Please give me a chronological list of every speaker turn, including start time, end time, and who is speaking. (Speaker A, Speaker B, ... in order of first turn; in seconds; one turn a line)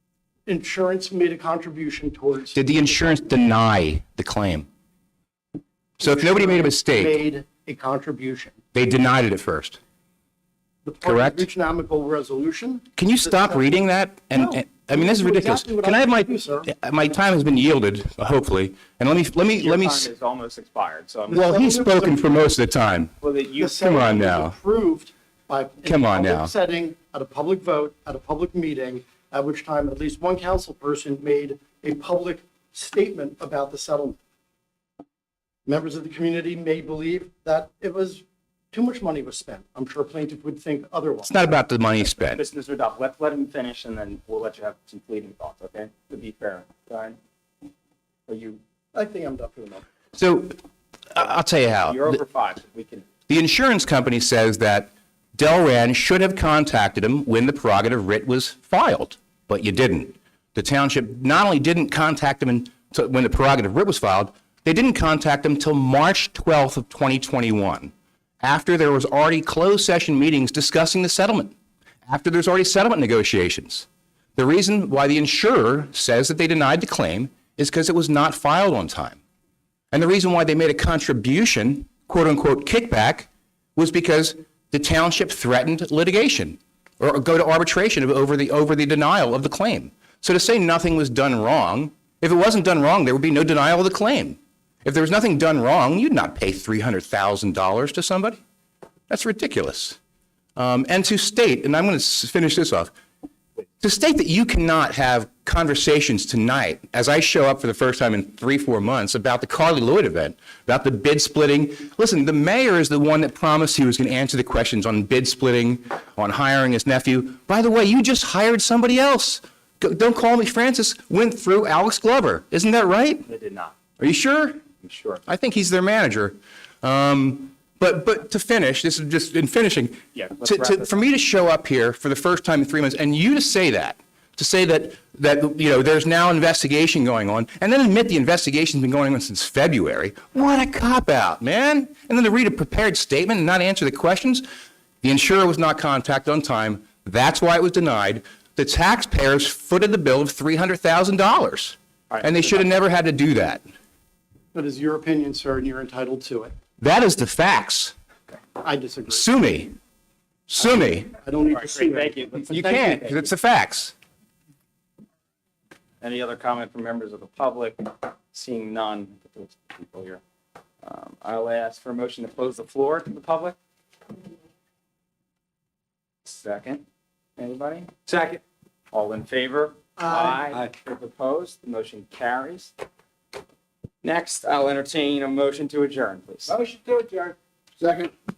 Speaker A: 0.5-2.6
Speaker B: 2.5-4.7
Speaker A: 6.0-8.6
Speaker B: 6.0-7.2
Speaker B: 8.8-9.8
Speaker A: 10.8-13.8
Speaker B: 11.0-11.5
Speaker B: 13.0-20.1
Speaker A: 14.3-16.7
Speaker C: 19.5-21.4
Speaker A: 21.3-22.3
Speaker B: 21.3-23.1
Speaker C: 23.2-23.8
Speaker A: 23.6-34.2
Speaker B: 23.8-24.6
Speaker B: 25.9-26.5
Speaker A: 35.7-41.3
Speaker B: 41.2-42.4
Speaker C: 42.1-47.2
Speaker C: 48.3-48.6
Speaker A: 48.9-49.9
Speaker B: 50.1-50.6
Speaker B: 51.1-52.2
Speaker C: 51.8-53.1
Speaker B: 53.3-71.5
Speaker B: 72.1-79.2
Speaker B: 79.9-98.4
Speaker B: 99.1-100.0
Speaker B: 100.6-102.9
Speaker B: 103.8-123.3
Speaker C: 123.3-123.8
Speaker B: 124.0-124.6
Speaker C: 124.8-125.2
Speaker B: 125.3-144.4
Speaker C: 130.2-131.0
Speaker B: 145.0-153.6
Speaker C: 152.1-152.6
Speaker A: 154.5-156.6
Speaker B: 156.8-157.9
Speaker A: 158.6-159.3
Speaker B: 159.1-159.7
Speaker B: 160.5-161.1
Speaker A: 161.2-163.0
Speaker C: 161.5-163.3
Speaker B: 162.4-163.9
Speaker C: 166.0-170.2
Speaker C: 170.8-173.6
Speaker C: 176.2-176.8
Speaker C: 177.4-178.4
Speaker C: 178.9-182.7
Speaker D: 180.1-180.7
Speaker C: 184.0-186.6
Speaker D: 186.5-188.1